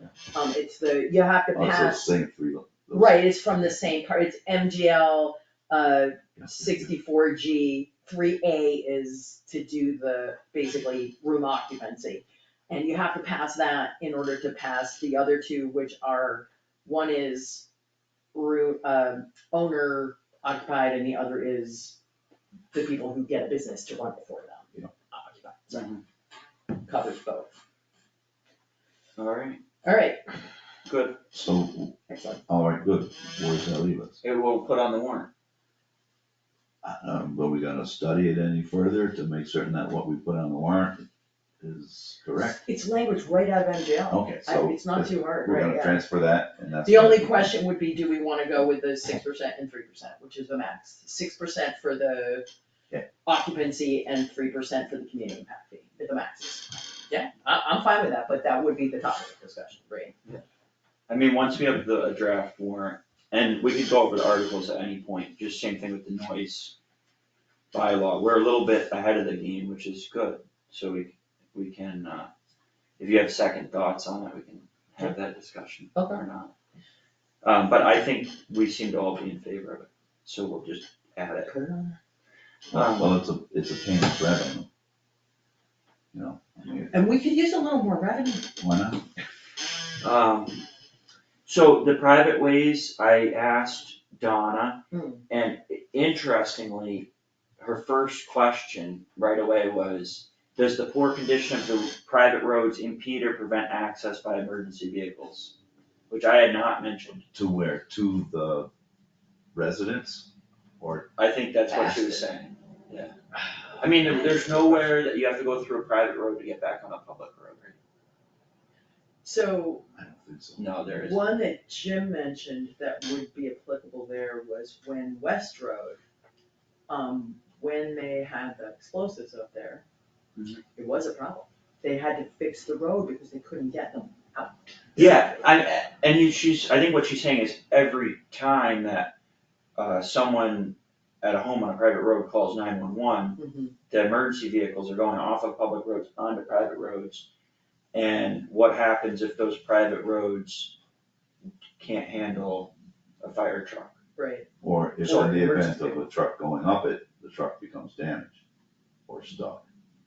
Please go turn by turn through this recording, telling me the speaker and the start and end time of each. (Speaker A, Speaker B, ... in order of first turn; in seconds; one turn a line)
Speaker A: 0.3-2.1
Speaker B: 1.5-3.3
Speaker A: 2.9-17.7
Speaker B: 6.4-6.7
Speaker A: 18.3-22.0
Speaker A: 22.7-25.9
Speaker C: 25.7-26.0
Speaker A: 26.9-27.5
Speaker C: 29.2-29.6
Speaker A: 29.8-30.5
Speaker C: 30.9-31.2
Speaker B: 31.3-34.2
Speaker A: 32.1-32.4
Speaker C: 34.2-35.3
Speaker B: 36.8-41.1
Speaker B: 41.6-42.6
Speaker A: 42.6-46.0
Speaker B: 44.1-47.5
Speaker A: 46.8-52.5
Speaker A: 53.2-60.2
Speaker C: 61.1-66.7
Speaker C: 67.7-72.3
Speaker C: 73.0-76.5
Speaker A: 76.0-76.2
Speaker C: 77.4-81.5
Speaker A: 81.5-82.0
Speaker B: 82.7-84.7
Speaker C: 82.7-83.2
Speaker B: 86.1-87.0
Speaker A: 86.9-88.5
Speaker B: 88.6-89.0
Speaker C: 90.0-90.7
Speaker C: 91.5-97.1
Speaker A: 94.9-95.2
Speaker C: 97.6-105.5
Speaker C: 106.1-107.2
Speaker B: 107.3-108.7
Speaker B: 109.5-110.3
Speaker B: 110.8-111.1
Speaker C: 111.2-113.2
Speaker A: 111.7-112.2
Speaker C: 113.7-117.8
Speaker A: 114.1-114.6
Speaker A: 119.2-119.8
Speaker B: 120.0-120.7
Speaker C: 120.6-121.3
Speaker A: 120.9-126.0
Speaker A: 126.9-129.8
Speaker C: 130.4-130.6
Speaker A: 130.8-135.6
Speaker C: 135.0-139.1
Speaker C: 139.8-147.3
Speaker A: 143.4-143.7
Speaker C: 147.9-150.8
Speaker C: 151.8-154.0
Speaker A: 154.2-154.5
Speaker B: 154.6-158.4
Speaker A: 155.0-156.0
Speaker B: 159.1-159.6